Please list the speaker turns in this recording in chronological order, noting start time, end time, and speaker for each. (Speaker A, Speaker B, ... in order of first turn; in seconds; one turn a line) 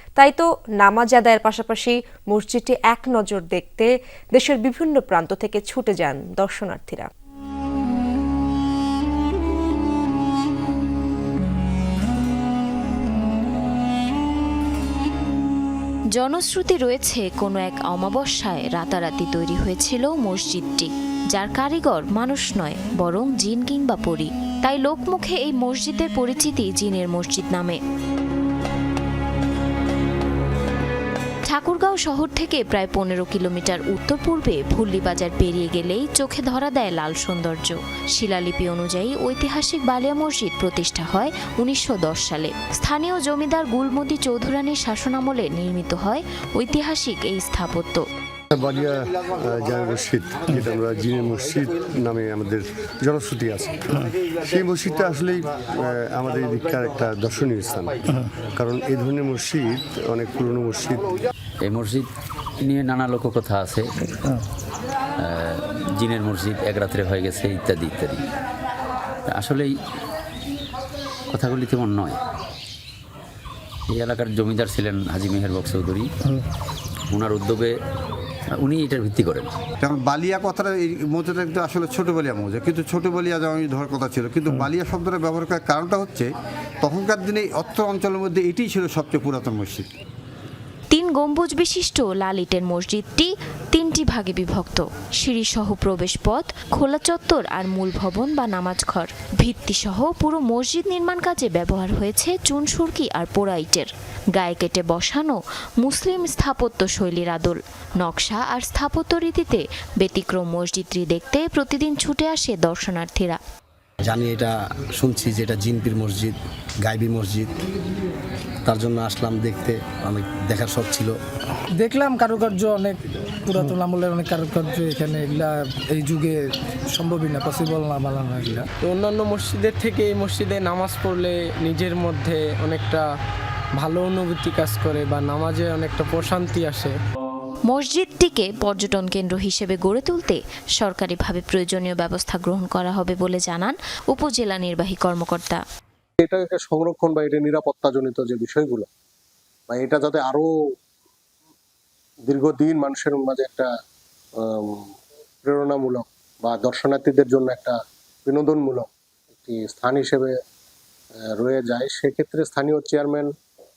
Speaker A: 0.2-7.1
Speaker B: 16.1-27.8
Speaker B: 31.5-48.0
Speaker C: 48.5-61.1
Speaker D: 61.6-62.0
Speaker D: 62.6-63.9
Speaker D: 65.2-68.2
Speaker D: 69.3-69.7
Speaker D: 71.3-72.2
Speaker D: 73.9-76.1
Speaker D: 77.1-77.7
Speaker D: 78.6-79.5
Speaker E: 79.8-86.3
Speaker E: 86.8-89.9
Speaker B: 90.9-113.4
Speaker F: 114.0-117.5
Speaker F: 118.6-121.1
Speaker G: 121.8-126.4
Speaker G: 127.0-128.7
Speaker H: 128.8-133.1
Speaker H: 133.8-136.9
Speaker B: 137.7-145.6
Speaker I: 146.2-148.9
Speaker I: 149.7-150.5
Speaker I: 152.3-153.7
Speaker I: 154.5-154.8
Speaker I: 155.4-157.8
Speaker I: 158.2-160.3
Speaker I: 161.4-163.3